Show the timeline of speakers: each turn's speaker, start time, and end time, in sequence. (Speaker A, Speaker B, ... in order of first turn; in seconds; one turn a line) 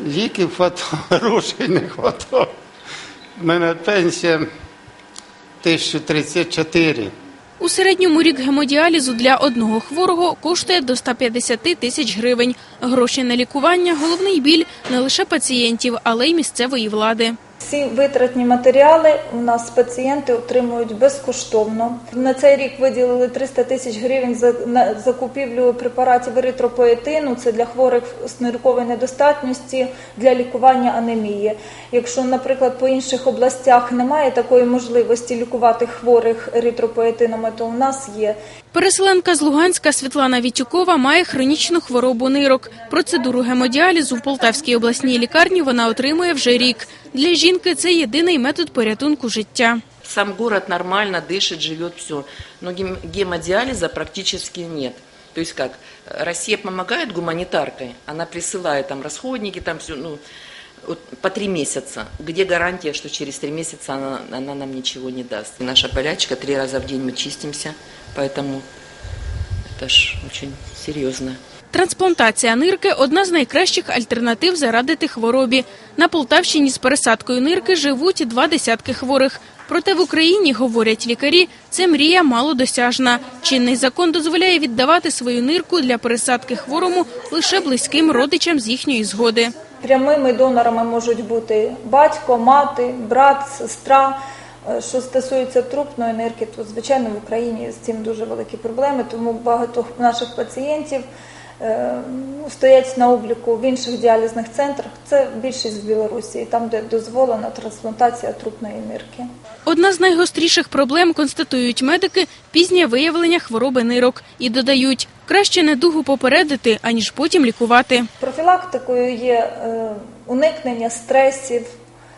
Speaker A: 0.1-2.5
Speaker A: 3.4-4.4
Speaker A: 5.7-7.1
Speaker B: 7.6-17.4
Speaker C: 17.6-38.4
Speaker B: 38.7-49.8
Speaker D: 50.0-60.2
Speaker D: 60.8-68.7
Speaker D: 69.8-71.4
Speaker B: 71.7-89.5
Speaker C: 89.8-101.0
Speaker C: 101.6-109.3
Speaker B: 109.7-118.1
Speaker C: 118.2-121.7